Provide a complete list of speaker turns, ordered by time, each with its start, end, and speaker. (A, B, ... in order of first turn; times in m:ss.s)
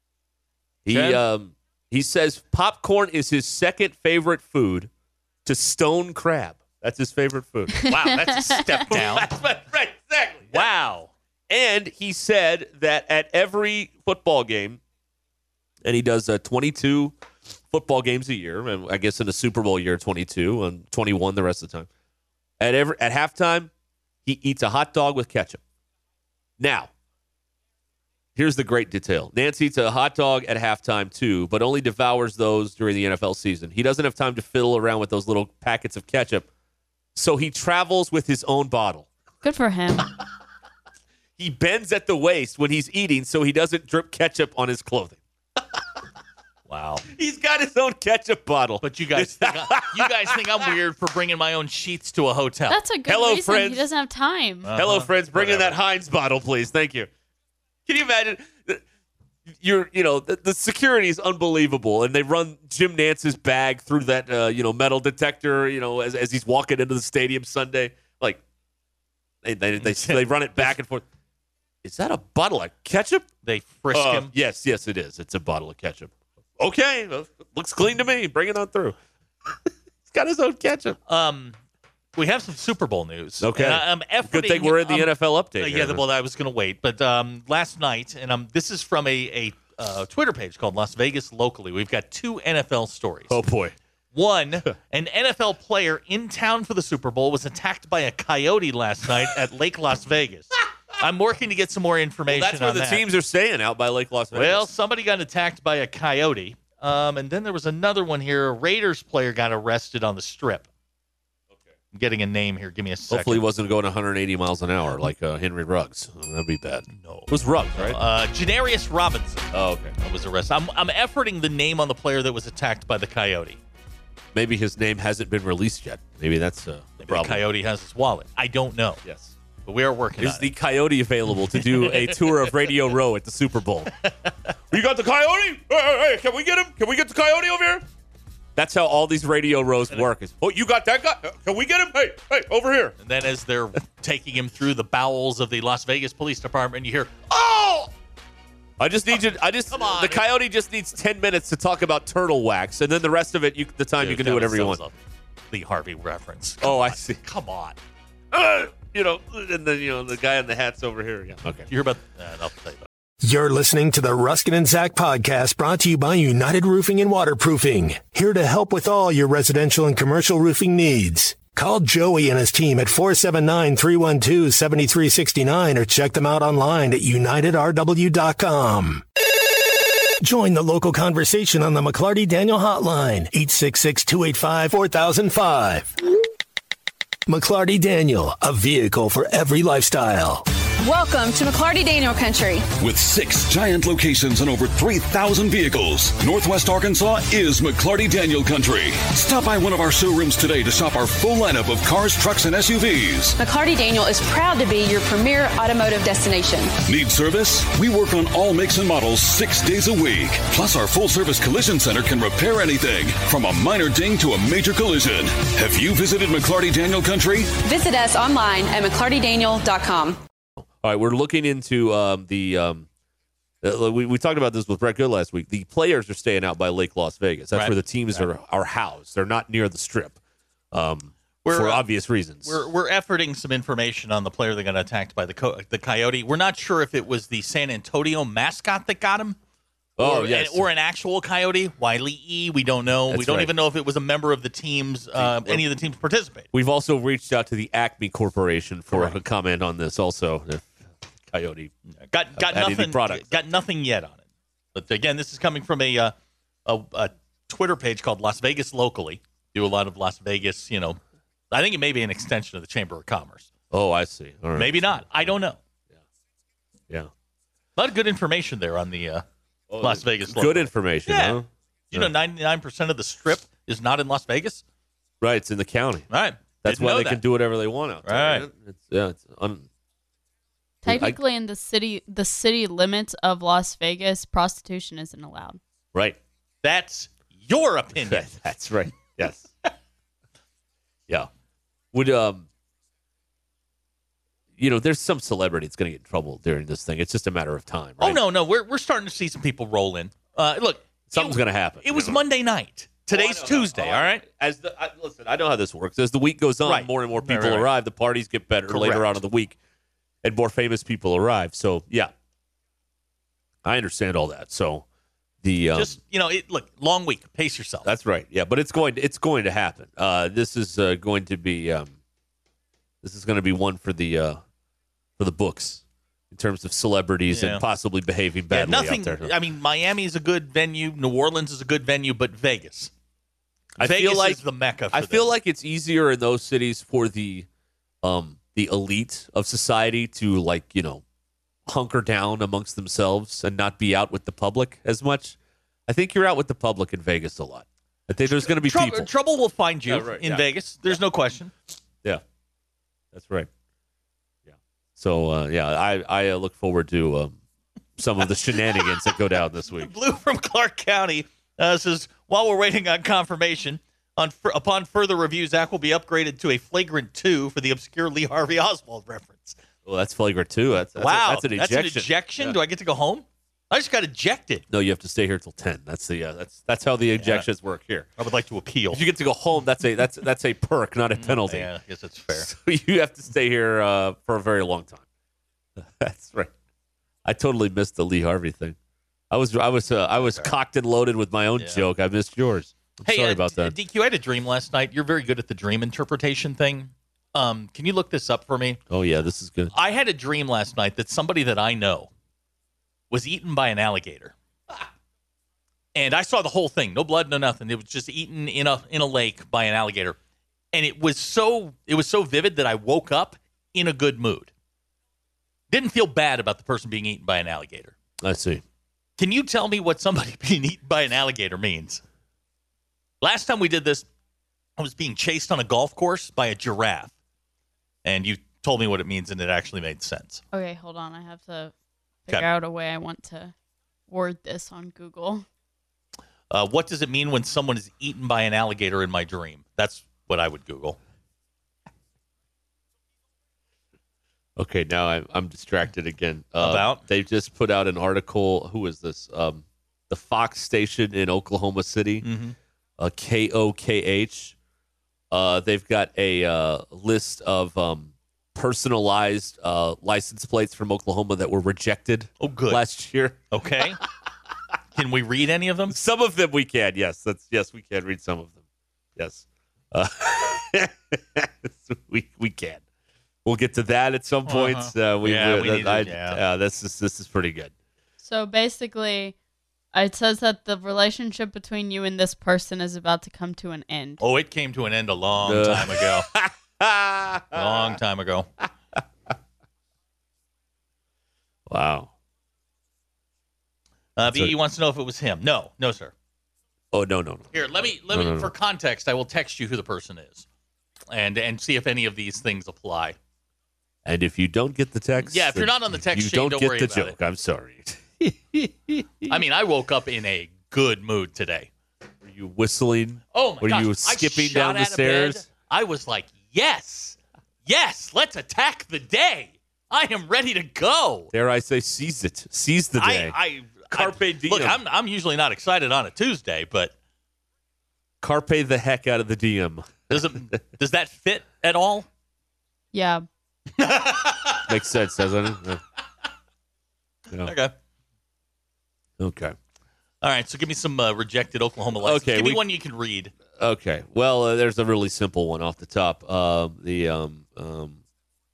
0:00.8-0:04.9 A
0:00.9-0:01.2 B
0:05.4-0:08.0 A
0:07.9-0:09.3 B
0:08.9-0:10.7 A
0:10.5-0:11.1 B
0:11.5-0:14.8 A
0:15.8-0:17.2 A
0:17.7-0:21.9 A
0:22.6-0:23.7 A
0:24.2-0:25.6 A
0:26.6-0:26.9 A
0:28.4-0:36.5 A
0:37.2-0:39.1 A
0:39.4-0:40.1 C
0:41.4-0:45.2 A
0:46.7-0:47.1 B
0:47.1-0:50.6 A
0:48.8-0:52.8 B
0:52.7-0:54.7 C
0:53.1-0:53.9 A
0:54.6-0:55.8 B
0:54.8-0:57.1 A
0:57.9-0:58.8 A
0:59.5-1:08.4 A
1:09.4-1:11.0 A
1:09.8-1:10.2 B
1:11.8-1:13.3 A
1:13.4-1:14.3 B
1:13.9-1:19.0 A
1:20.1-1:21.0 A
1:21.1-1:21.6 B
1:22.2-1:33.4 B
1:23.4-1:26.0 A
1:33.3-1:33.8 A
1:34.1-1:43.0 B
1:42.3-1:44.7 A
1:44.3-1:50.7 B
1:51.9-1:53.4 B
1:53.1-1:58.0 A
1:56.9-1:59.5 B
1:59.5-2:00.0 A
2:00.0-2:03.6 B
2:04.3-2:07.4 A
2:07.0-2:09.0 B
2:09.0-2:09.4 A
2:09.6-2:10.5 B
2:10.2-2:13.9 A
2:11.6-2:12.3 B
2:14.7-2:17.8 A
2:18.6-2:23.0 A
2:23.0-2:27.3 B
2:27.3-2:27.9 A
2:28.8-2:34.8 A
2:29.7-2:30.3 B
2:34.0-2:35.0 B
2:35.5-2:37.8 B
2:36.6-2:37.2 A
2:38.3-2:41.7 A
2:41.7-2:42.8 B
2:43.2-2:59.0 D
3:00.2-3:05.9 D
3:07.3-3:10.5 D
3:10.8-3:12.7 E
3:12.8-3:23.4 F
3:23.4-3:26.8 E
3:26.8-3:37.6 F
3:37.6-3:40.2 E
3:40.8-3:42.9 A
3:43.6-3:50.2 A
3:47.5-3:48.3 B
3:50.7-3:52.6 A
3:51.4-3:51.8 B
3:52.4-3:59.4 B
4:00.0-4:00.7 A
4:00.0-4:06.5 B
4:03.1-4:03.5 A
4:05.2-4:05.6 A
4:06.5-4:11.7 A
4:08.9-4:09.2 B
4:12.1-4:14.2 B
4:12.4-4:13.5 A
4:14.8-4:16.1 B
4:16.7-4:21.0 B
4:21.5-4:23.5 B
4:23.7-4:25.3 A
4:24.6-4:25.6 B
4:27.8-4:29.2 B
4:29.7-4:32.1 A
4:29.8-4:34.6 B
4:35.2-4:36.1 A
4:36.1-4:37.2 B
4:36.6-4:39.7 A
4:38.0-4:38.5 B
4:40.8-4:45.6 C
4:40.9-4:41.2 A
4:46.6-4:48.3 B
4:48.0-4:49.5 A
4:51.9-4:52.5 A
4:54.6-4:58.2 A
4:58.0-5:04.2 B
5:01.1-5:02.2 A
5:03.1-5:09.6 A
5:06.6-5:07.7 B
5:08.7-5:09.2 B
5:10.2-5:12.1 A
5:13.6-5:14.8 A
5:15.4-5:16.0 A
5:15.7-5:17.9 B
5:17.8-5:21.9 A
5:23.0-5:24.4 A
5:25.2-5:29.3 A
5:27.3-5:27.6 B
5:28.5-5:32.9 B
5:33.8-5:37.5 A
5:33.8-5:35.3 B
5:38.0-5:41.0 A
5:41.7-5:49.1 A
5:48.3-5:51.5 B
5:49.9-5:50.4 A
5:53.1-5:53.5 A
5:54.5-5:57.4 A
5:58.0-5:59.9 A
5:59.8-6:09.6 B
6:09.9-6:12.6 A
6:11.0-6:14.6 B
6:14.7-6:18.1 A
6:17.2-6:17.5 B
6:18.2-6:19.1 B
6:18.9-6:21.7 A
6:21.2-6:22.5 B
6:22.4-6:25.0 A
6:25.8-6:26.5 A
6:27.2-6:28.8 A
6:29.3-6:33.8 A
6:30.3-6:30.5 B
6:33.0-6:38.8 B
6:38.9-6:39.7 A
6:39.7-6:42.1 B
6:43.1-6:44.3 B
6:46.0-6:50.2 B
6:50.7-6:54.5 B
6:55.7-6:58.0 B
6:58.2-6:58.6 A
6:59.2-7:02.0 B
7:03.2-7:04.1 B
7:04.8-7:07.1 B
7:08.0-7:10.4 B
7:10.5-7:11.7 C
7:12.3-7:13.5 C
7:14.1-7:15.4 C
7:16.5-7:21.0 B
7:24.6-7:32.3 A
7:26.6-7:27.0 B
7:32.2-7:32.6 B
7:33.0-7:34.6 A
7:35.3-7:43.4 A
7:42.4-7:42.8 B
7:43.5-7:44.0 B
7:45.0-7:46.0 B
7:45.9-7:48.6 A
7:49.2-7:52.8 A
7:53.4-7:57.7 A
7:54.5-7:56.4 B
7:58.2-7:59.4 C
7:59.9-8:04.2 C
8:04.2-8:06.3 B
8:05.4-8:08.0 A
8:07.5-8:08.5 B
8:11.7-8:12.1 A
8:14.2-8:16.1 B
8:14.3-8:14.5 A
8:16.9-8:18.5 A
8:17.5-8:20.4 B
8:21.1-8:23.2 B
8:24.0-8:29.4 A
8:25.3-8:27.2 B
8:29.3-8:31.7 B
8:32.2-8:35.4 A
8:33.3-8:41.3 B
8:41.3-8:43.4 A
8:43.0-8:46.9 B
8:43.9-8:44.8 A
8:48.2-8:50.1 A
8:50.1-8:52.1 B
8:52.9-8:53.2 C
8:53.8-8:54.7 B
8:54.7-8:55.8 A
8:57.3-8:57.6 A
8:57.4-8:57.7 B
8:59.2-8:59.6 A
9:00.2-9:03.3 B
9:02.0-9:02.6 A
9:03.6-9:08.0 A